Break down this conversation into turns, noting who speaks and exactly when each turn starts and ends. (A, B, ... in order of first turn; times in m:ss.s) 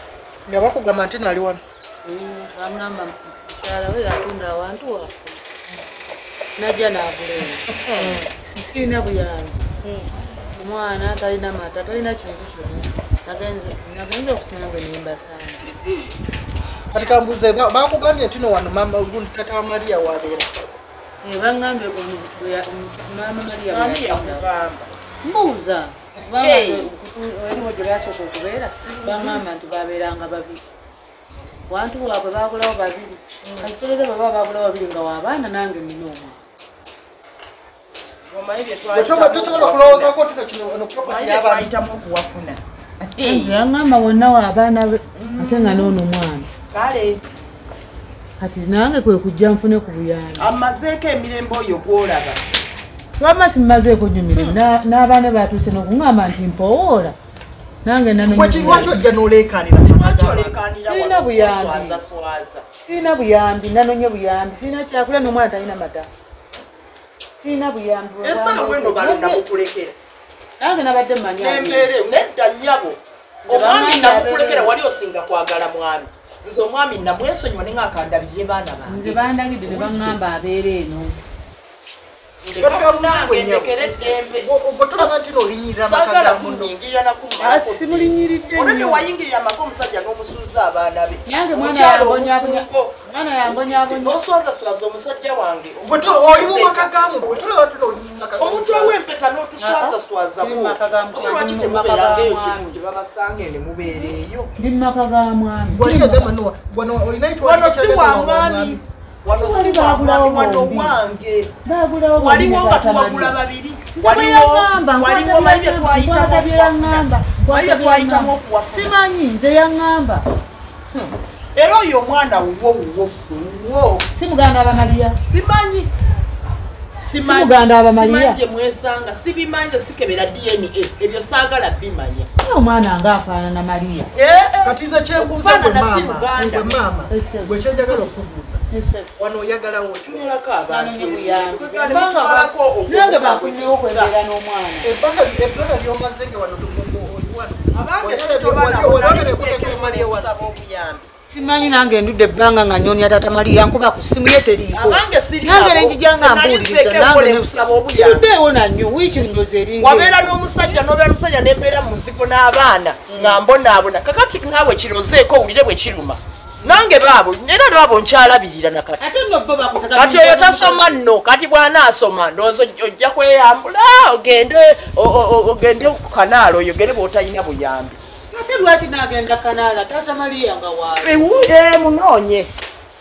0:00.5-0:01.6 A
0:02.0-0:05.4 B
0:06.6-0:07.8 B
0:08.0-0:08.3 A
0:08.4-0:09.7 B
0:10.6-0:15.6 B
0:16.9-0:20.5 A
0:21.2-0:24.4 B
0:23.6-0:24.9 C
0:25.2-0:30.6 B
0:26.4-0:26.9 C
0:29.0-0:29.4 C
0:31.7-0:36.4 B
0:33.4-0:33.7 C
0:38.3-0:40.1 C
0:38.9-0:41.7 A
0:41.1-0:43.6 C
0:43.2-0:46.5 B
0:45.2-0:46.0 C
0:46.7-0:47.2 C
0:48.4-0:50.5 B
0:50.4-0:52.4 C
0:53.2-0:57.2 B
0:57.8-0:58.9 B
0:58.2-1:00.6 A
0:59.8-1:02.6 C
1:00.9-1:02.0 B
1:02.8-1:06.1 B
1:07.4-1:09.4 B
1:08.2-1:10.0 C
1:10.6-1:11.9 B
1:11.4-1:20.2 C
1:13.5-1:14.7 B
1:18.9-1:21.2 B
1:22.4-1:24.5 C
1:22.6-1:26.7 A
1:25.8-1:36.9 C
1:27.4-1:29.0 B
1:31.3-1:34.2 B
1:35.8-1:39.0 A
1:38.4-1:44.5 C
1:39.6-1:42.8 B
1:44.6-1:46.3 B
1:45.7-1:48.8 A
1:47.4-1:51.5 C
1:49.3-1:50.9 B
1:51.6-1:53.4 B
1:52.2-1:59.0 C
1:54.0-2:00.2 B
2:00.9-2:04.0 C
2:04.2-2:05.2 B
2:05.2-2:05.9 C
2:07.0-2:12.3 C
2:07.2-2:08.4 B
2:12.4-2:14.1 B
2:14.1-2:16.8 C
2:14.6-2:18.6 A
2:17.1-2:17.6 B
2:18.7-2:19.1 B
2:19.2-2:20.3 A
2:20.1-2:24.1 C
2:20.7-2:24.9 B
2:24.8-2:30.3 A
2:27.7-2:31.0 C
2:31.3-2:40.2 B
2:34.7-2:38.3 C
2:39.8-2:49.0 C
2:49.0-2:50.9 B
2:49.9-2:58.0 C
2:58.3-3:01.3 B
3:01.0-3:02.5 C